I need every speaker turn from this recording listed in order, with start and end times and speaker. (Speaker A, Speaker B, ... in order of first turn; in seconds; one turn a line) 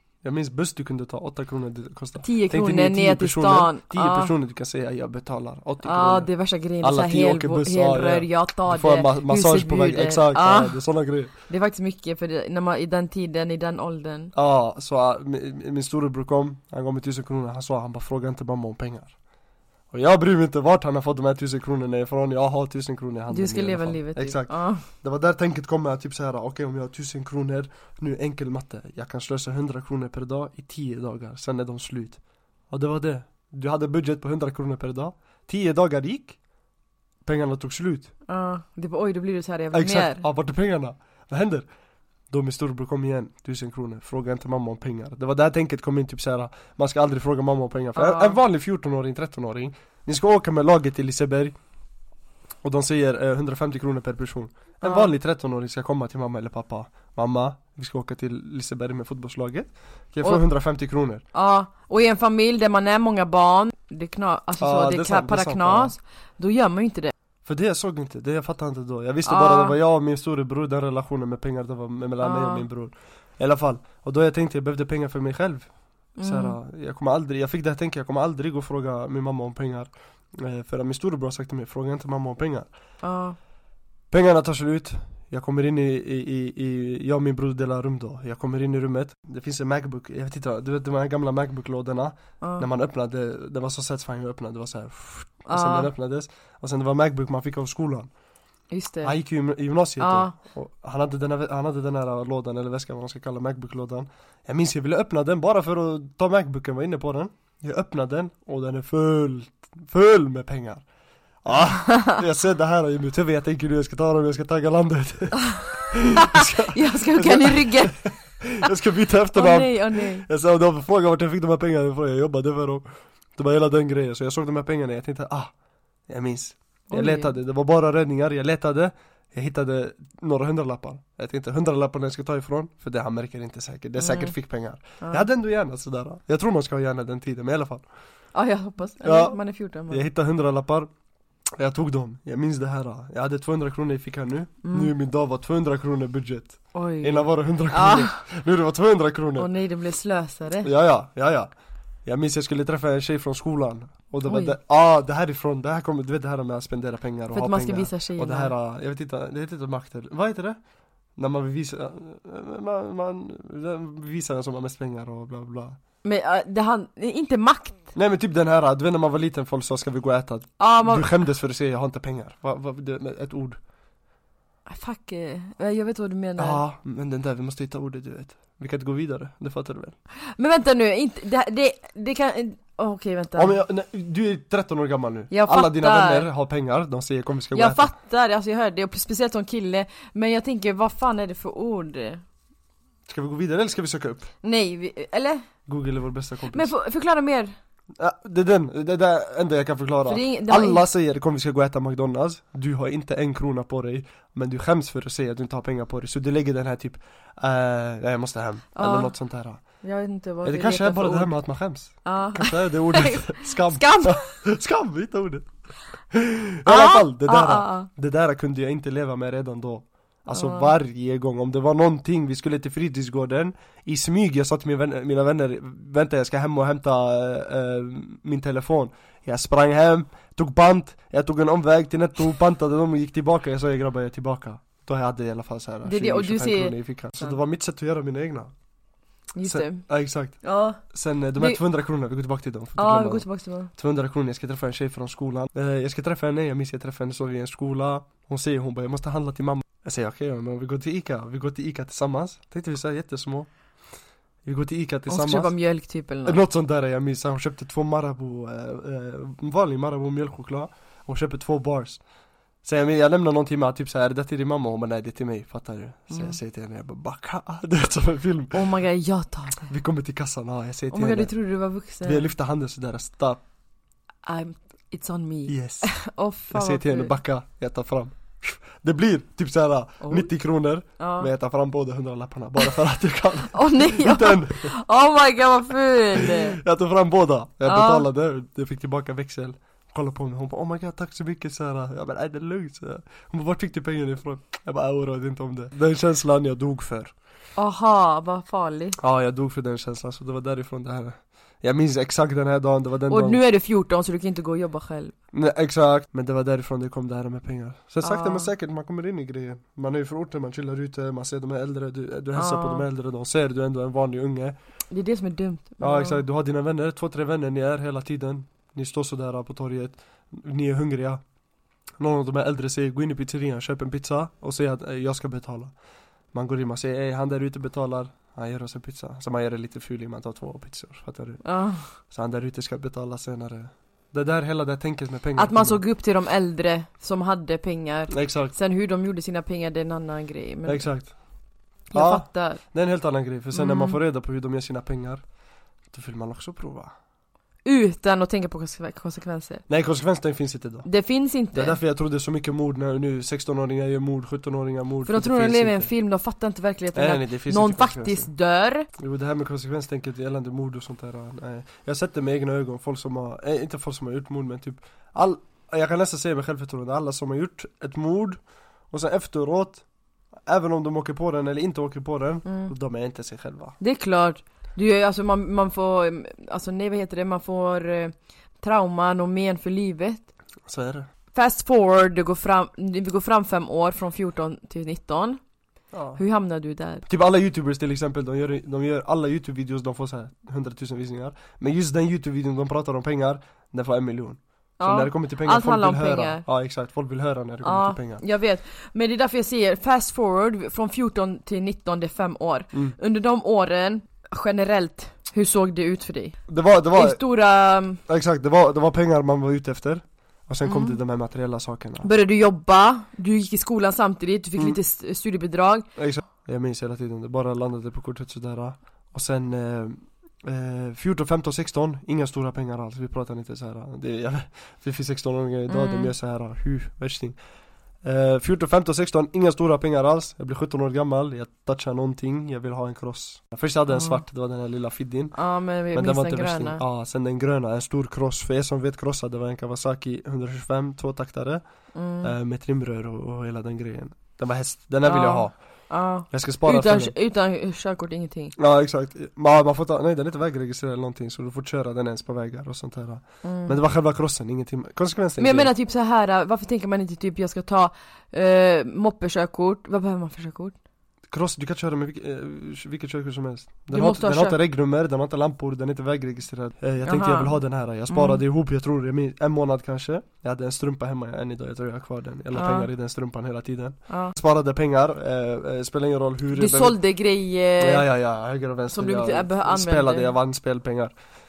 Speaker A: 0.2-11.3
Speaker B: 2.2-4.3
Speaker B: 5.8-10.8
Speaker B: 11.5-14.3
Speaker A: 14.3-19.1
Speaker A: 19.9-36.4
Speaker B: 23.3-24.9
Speaker A: 37.2-38.1
Speaker B: 38.3-40.2
Speaker A: 39.7-41.7
Speaker A: 42.3-51.5
Speaker B: 48.0-48.4
Speaker A: 52.6-61.2
Speaker B: 54.8-55.1
Speaker B: 61.3-67.1
Speaker A: 64.6-66.0
Speaker A: 67.5-75.7
Speaker B: 69.3-69.8
Speaker B: 72.2-72.7
Speaker B: 76.2-76.6
Speaker A: 76.2-82.7
Speaker B: 83.0-83.4
Speaker A: 84.1-98.1
Speaker B: 92.4-92.7
Speaker B: 95.5-95.9
Speaker B: 98.7-99.1
Speaker A: 99.0-110.8
Speaker B: 100.0-100.3
Speaker A: 111.4-125.5
Speaker B: 111.9-112.2
Speaker B: 116.2-118.1
Speaker B: 119.3-120.3
Speaker A: 126.1-137.8
Speaker B: 126.9-127.3
Speaker B: 134.0-134.3
Speaker B: 135.0-135.3
Speaker B: 138.3-140.0
Speaker A: 139.0-139.4
Speaker A: 139.9-140.9
Speaker A: 141.6-149.5
Speaker B: 144.6-144.9
Speaker B: 146.7-148.2
Speaker B: 149.4-150.7
Speaker A: 150.6-151.5
Speaker A: 152.1-160.6
Speaker B: 154.2-154.6
Speaker B: 157.3-158.5
Speaker A: 161.2-165.8
Speaker B: 166.0-167.9
Speaker A: 167.9-173.6
Speaker B: 170.6-171.1
Speaker B: 174.7-176.6
Speaker A: 176.4-179.9
Speaker B: 180.4-183.6
Speaker A: 183.4-187.9
Speaker B: 185.3-186.3
Speaker B: 187.5-192.2
Speaker A: 193.1-194.3
Speaker B: 194.4-195.5
Speaker A: 195.7-196.7
Speaker B: 196.5-197.6
Speaker A: 198.0-209.8
Speaker B: 200.1-200.8
Speaker B: 208.8-209.1
Speaker B: 209.7-211.3
Speaker A: 210.4-215.5
Speaker B: 212.0-214.4
Speaker A: 216.1-238.5
Speaker B: 216.7-217.9
Speaker B: 220.3-220.7
Speaker B: 235.8-237.4
Speaker B: 239.4-239.8
Speaker A: 239.4-253.5
Speaker B: 240.4-240.8
Speaker B: 242.8-243.7
Speaker A: 254.4-255.5
Speaker B: 255.1-256.4
Speaker A: 256.2-262.0
Speaker A: 262.6-268.7
Speaker B: 266.1-266.4
Speaker B: 268.5-269.7
Speaker A: 269.7-271.4
Speaker B: 270.9-272.3
Speaker A: 272.0-273.4
Speaker B: 274.2-277.1
Speaker A: 275.5-276.0
Speaker A: 276.5-284.7
Speaker B: 280.0-280.3
Speaker B: 281.0-281.3
Speaker B: 283.5-286.6
Speaker A: 286.1-297.1
Speaker B: 287.6-288.1
Speaker B: 297.6-299.0
Speaker A: 299.0-303.4
Speaker B: 303.1-305.1
Speaker A: 305.3-314.6
Speaker B: 308.0-308.5
Speaker B: 312.4-312.9
Speaker B: 314.9-316.2
Speaker A: 315.8-321.2
Speaker A: 322.0-325.8
Speaker A: 326.3-335.8
Speaker B: 331.4-331.9
Speaker B: 335.4-340.9
Speaker A: 338.1-338.5
Speaker A: 340.7-341.2
Speaker B: 341.9-342.6
Speaker A: 341.9-345.2
Speaker B: 343.5-344.0
Speaker A: 345.9-346.9
Speaker B: 347.6-349.6
Speaker A: 349.7-350.9
Speaker B: 350.9-351.8
Speaker A: 351.5-355.9
Speaker B: 355.1-358.9
Speaker A: 356.9-358.3
Speaker A: 359.0-369.8
Speaker A: 370.5-373.8
Speaker B: 372.4-372.7
Speaker B: 373.8-380.3
Speaker A: 380.7-381.1
Speaker B: 381.3-385.4
Speaker A: 385.9-386.2
Speaker B: 386.1-387.0
Speaker A: 387.1-398.2
Speaker B: 394.8-396.4
Speaker B: 397.6-406.4
Speaker A: 406.5-407.2
Speaker B: 406.9-408.0
Speaker A: 408.1-412.1
Speaker B: 410.6-411.0
Speaker B: 412.0-415.9
Speaker A: 416.0-427.4
Speaker B: 425.7-426.1
Speaker A: 428.0-447.1
Speaker B: 433.9-434.2
Speaker B: 435.3-436.8
Speaker B: 441.9-442.3
Speaker B: 445.0-448.6
Speaker A: 448.6-455.7
Speaker B: 453.4-453.8
Speaker B: 455.4-460.8
Speaker A: 461.3-477.0
Speaker B: 463.9-464.6
Speaker B: 467.0-468.4
Speaker B: 472.5-472.9
Speaker B: 474.1-474.3
Speaker B: 476.5-478.1
Speaker A: 477.8-481.1
Speaker B: 478.9-480.3